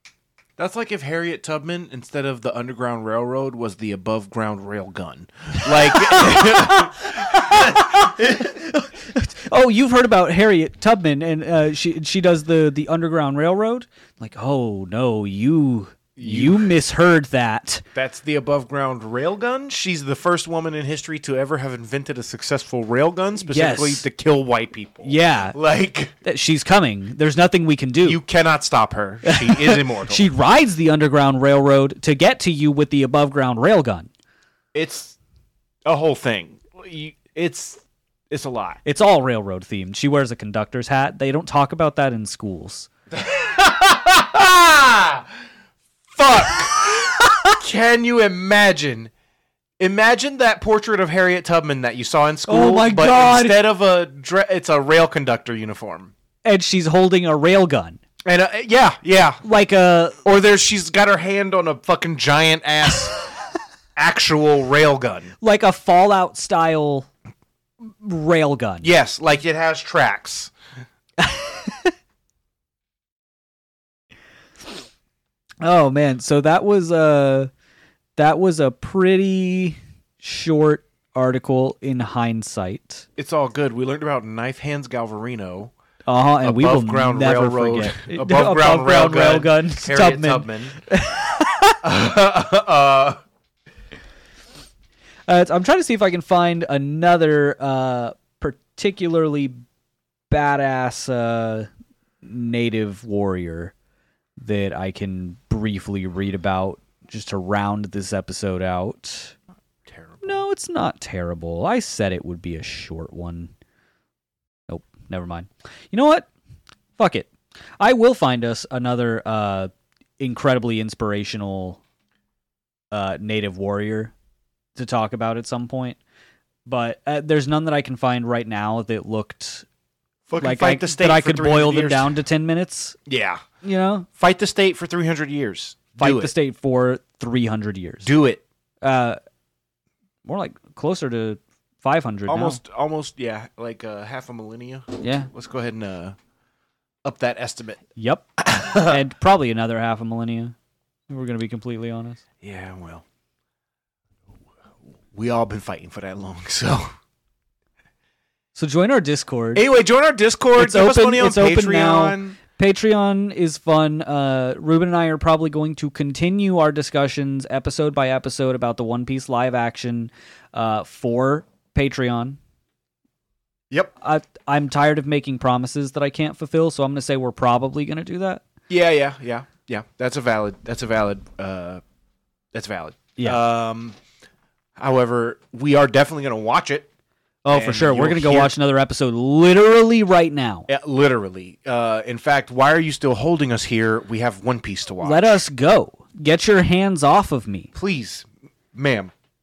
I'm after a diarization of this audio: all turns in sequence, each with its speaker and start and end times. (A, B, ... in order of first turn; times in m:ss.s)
0:00.6-0:08.5 A
0:05.6-0:17.8 B
0:16.2-0:16.7 A
0:18.0-0:26.2 A
0:23.4-0:24.0 B
0:25.0-0:25.6 B
0:26.2-0:28.2 B
0:28.0-0:30.3 A
0:29.2-0:34.1 B
0:34.7-0:35.2 A
0:35.9-0:38.8 A
0:38.8-0:42.9 B
0:43.1-0:45.3 A
0:46.1-0:49.1 A
0:46.9-0:47.5 B
0:49.8-0:56.1 A
0:52.5-0:53.6 B
0:56.4-0:58.0 B
0:58.2-0:59.4 A
0:59.4-1:00.2 B
1:00.2-1:03.2 A
1:04.0-1:05.3 A
1:05.4-1:07.1 B
1:07.8-1:08.9 B
1:08.8-1:10.5 A
1:11.2-1:11.9 B
1:15.6-1:17.5 B
1:18.2-1:23.1 B
1:23.2-1:25.7 A
1:26.1-1:31.8 B
1:26.4-1:30.8 A
1:31.8-1:33.2 A
1:35.3-1:39.6 B
1:40.3-1:41.7 B
1:42.2-1:43.7 B
1:44.4-1:49.4 B
1:49.9-1:50.4 A
1:50.2-1:53.5 B
1:54.7-1:56.3 B
1:57.0-2:01.8 B
2:02.9-2:04.1 B
2:04.8-2:06.0 B
2:06.7-2:09.7 B
2:10.3-2:12.1 A
2:10.4-2:13.0 B
2:13.1-2:13.4 A
2:13.6-2:14.1 B
2:14.2-2:16.3 A
2:16.0-2:18.1 B
2:18.0-2:18.4 A
2:18.8-2:19.2 B
2:20.2-2:22.6 B
2:22.3-2:26.2 A
2:25.0-2:25.3 B
2:27.0-2:27.8 A
2:28.0-2:30.6 B
2:28.4-2:29.0 A
2:31.1-2:32.2 B
2:32.4-2:33.0 A
2:35.1-2:36.9 A
2:38.6-2:39.6 B
2:39.6-2:42.4 A
2:40.6-2:52.4 B
2:54.0-2:58.4 B
2:58.7-3:01.8 A
3:02.5-3:04.0 A
3:04.8-3:06.9 A
3:07.5-3:08.5 A
3:07.5-3:10.7 B
3:10.7-3:15.4 A
3:15.0-3:17.7 B
3:17.7-3:19.1 A